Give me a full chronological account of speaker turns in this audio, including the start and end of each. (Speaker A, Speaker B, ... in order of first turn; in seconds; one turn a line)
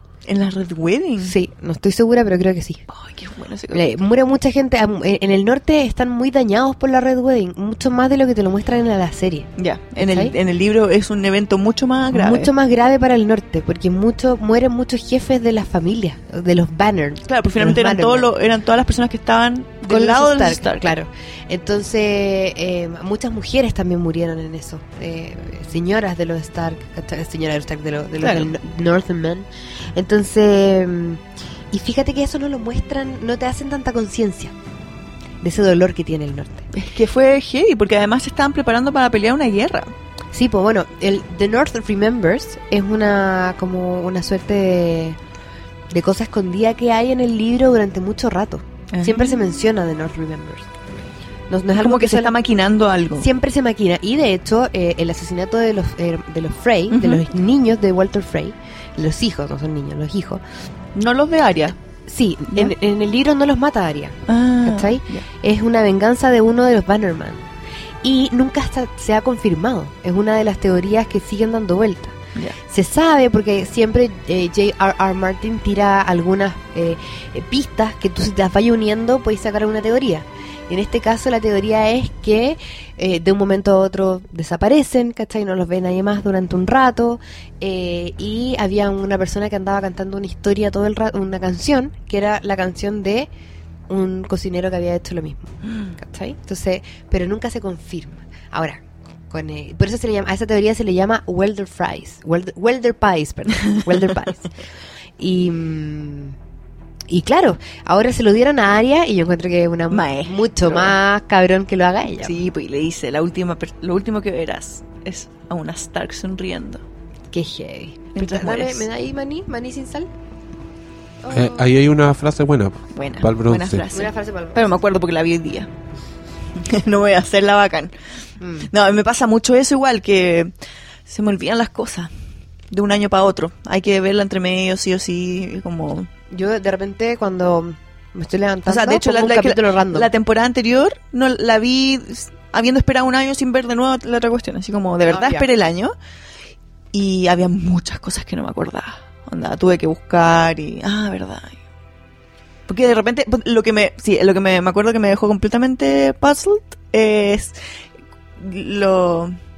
Speaker A: 0.2-1.3
Speaker B: 1.2-2.8
Speaker A: 2.9-4.0
Speaker B: 3.7-10.3
Speaker A: 9.6-12.5
Speaker B: 12.1-18.3
Speaker A: 17.3-20.9
Speaker B: 19.8-34.5
Speaker A: 28.2-28.5
Speaker B: 35.4-36.7
Speaker A: 36.7-39.9
Speaker B: 40.3-45.2
Speaker B: 45.9-50.7
Speaker A: 48.9-49.4
Speaker B: 51.5-52.4
Speaker A: 51.7-53.3
Speaker B: 53.2-60.4
Speaker A: 56.9-57.2
Speaker A: 61.0-61.8
Speaker B: 62.1-67.5
Speaker A: 64.3-65.2
Speaker B: 68.0-93.3
Speaker B: 93.9-104.5
Speaker B: 105.2-106.3
Speaker B: 107.1-112.4
Speaker A: 109.9-111.0
Speaker A: 112.2-116.8
Speaker B: 117.3-120.1
Speaker A: 118.2-118.8
Speaker B: 121.2-121.6
Speaker C: 121.3-123.8
Speaker A: 122.9-125.7
Speaker B: 123.9-124.7
Speaker A: 126.5-127.9
Speaker B: 128.4-128.7
Speaker A: 128.7-130.5
Speaker A: 131.1-132.1
Speaker A: 132.7-136.1
Speaker B: 136.3-140.1
Speaker A: 138.7-145.9
Speaker B: 145.1-145.5
Speaker A: 146.9-151.6
Speaker A: 152.7-157.6
Speaker A: 158.4-159.3